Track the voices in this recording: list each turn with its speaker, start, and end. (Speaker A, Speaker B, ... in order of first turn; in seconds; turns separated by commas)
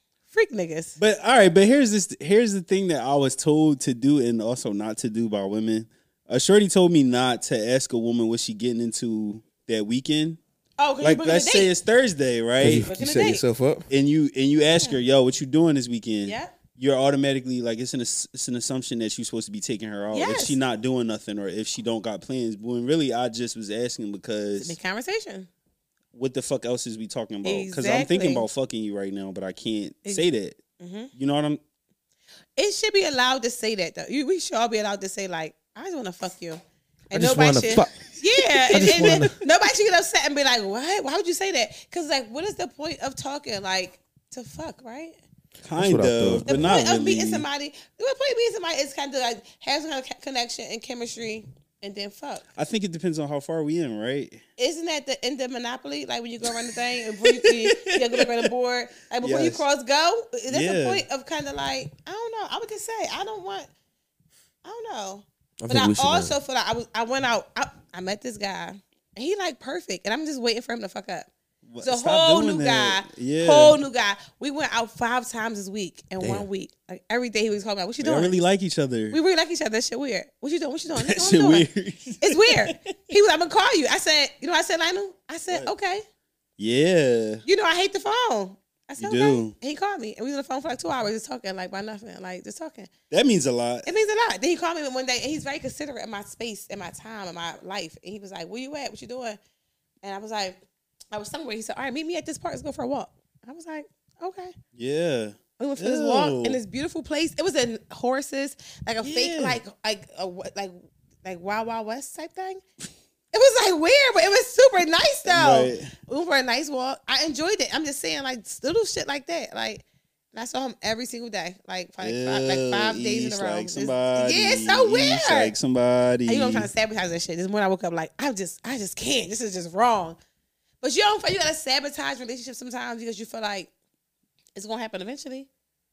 Speaker A: 0.3-1.0, Speaker B: 1.0-10.4, Speaker A: 10.8-11.7, Speaker B: 11.0-12.9, Speaker C: 12.6-13.9, Speaker A: 12.8-13.4, Speaker B: 13.9-24.8, Speaker A: 16.2-16.5, Speaker A: 20.1-20.6, Speaker A: 24.6-25.5, Speaker B: 26.1-30.6, Speaker A: 27.4-28.5, Speaker A: 30.8-31.1, Speaker B: 31.1-31.6, Speaker A: 32.6-45.2, Speaker C: 37.1-39.3, Speaker B: 38.8-39.2, Speaker B: 45.6-47.4, Speaker C: 45.8-46.8, Speaker A: 46.5-52.4, Speaker B: 52.5-54.4, Speaker A: 54.6-63.7, Speaker B: 57.2-58.5, Speaker B: 59.2-59.6, Speaker B: 60.5-61.0, Speaker A: 64.6-71.3, Speaker C: 65.6-66.4, Speaker B: 71.7-73.8, Speaker A: 71.8-78.3, Speaker C: 76.2-76.5, Speaker B: 78.0-79.2, Speaker A: 79.1-81.7, Speaker B: 81.0-82.9, Speaker A: 82.2-86.0, Speaker B: 86.6-87.4, Speaker A: 87.5-92.9, Speaker B: 89.0-89.5, Speaker B: 93.1-93.9, Speaker A: 93.8-99.4, Speaker A: 100.0-100.6, Speaker A: 101.1-104.5, Speaker B: 104.7-106.6, Speaker A: 105.6-112.6, Speaker B: 109.0-109.6, Speaker A: 113.3-125.5, Speaker B: 115.2-115.9, Speaker B: 122.0-126.7, Speaker A: 126.3-130.2, Speaker A: 130.8-133.7, Speaker A: 134.6-135.5